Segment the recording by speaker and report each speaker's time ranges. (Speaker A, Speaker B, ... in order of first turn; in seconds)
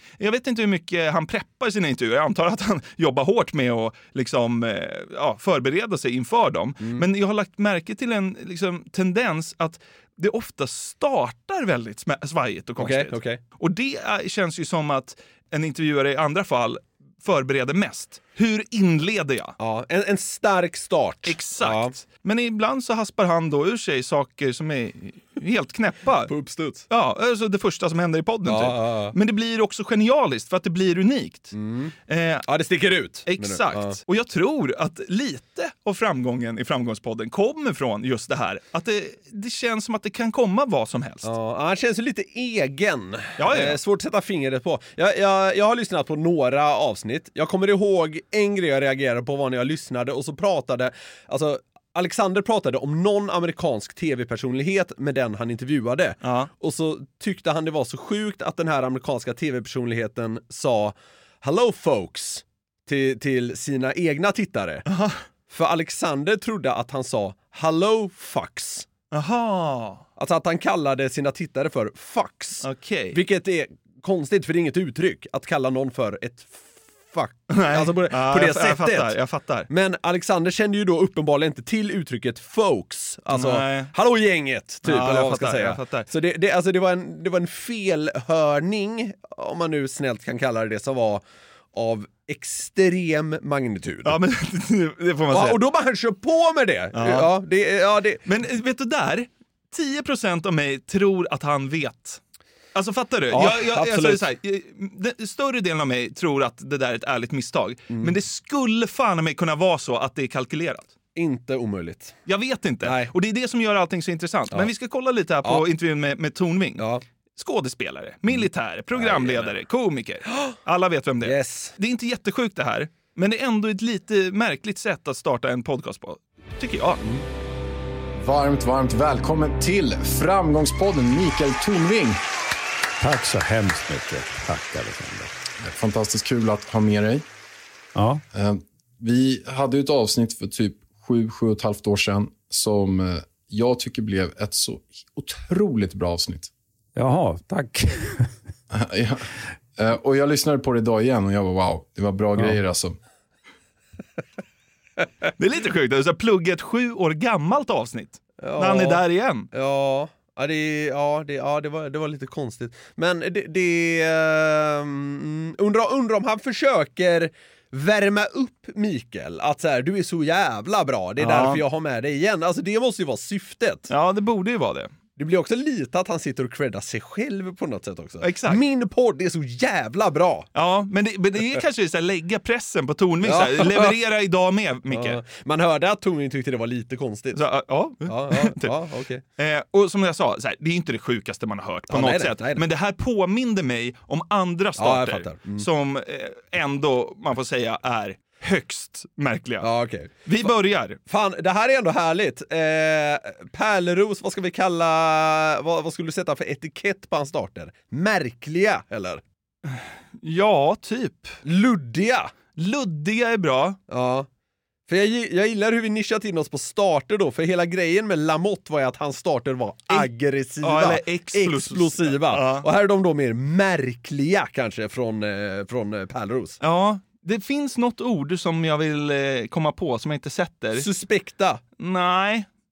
Speaker A: 0.2-19.6, 21.2-26.3, 26.9-31.5, 32.1-32.5, 33.3-41.3, 43.4-43.8, 56.2-56.5, 64.9-65.2, 69.1-70.0, 72.6-73.2, 77.5-79.7, 83.3-83.9, 84.8-86.1, 94.0-95.6, 96.9-97.3, 98.3-102.2, 102.8-110.9, 112.3-116.8, 117.4-127.0, 155.4-159.5, 171.2-171.6, 173.9-174.9, 178.2-178.6, 180.5-185.2, 187.3-188.7, 189.4-199.7, 200.2-201.0, 209.7-211.4, 212.6-213.8, 220.6-222.7, 226.6-230.9, 231.8-232.5
Speaker B: 12.8-13.4, 19.6-21.9, 26.3-26.9, 28.5-29.1, 31.5-31.9, 32.5-34.0, 41.2-64.8, 65.5-68.9, 70.2-79.2, 79.7-91.2, 91.7-94.2, 95.3-98.2, 103.3-104.2, 111.2-112.2, 112.8-113.1, 116.8-117.0, 118.3-119.5, 121.2-121.7, 158.4-173.9, 175.2-180.5, 183.2-184.0, 184.9-187.4, 188.1-189.2, 191.9-192.6, 194.8-195.7, 199.6-200.5, 201.1-209.2, 211.4-212.3, 213.9-214.3, 214.9-226.6, 230.8-231.6
Speaker C: 128.2-132.2, 135.6-137.2, 138.3-146.5, 148.7-149.3, 149.8-153.0
Speaker D: 133.0-135.3, 137.9-138.2, 146.9-148.3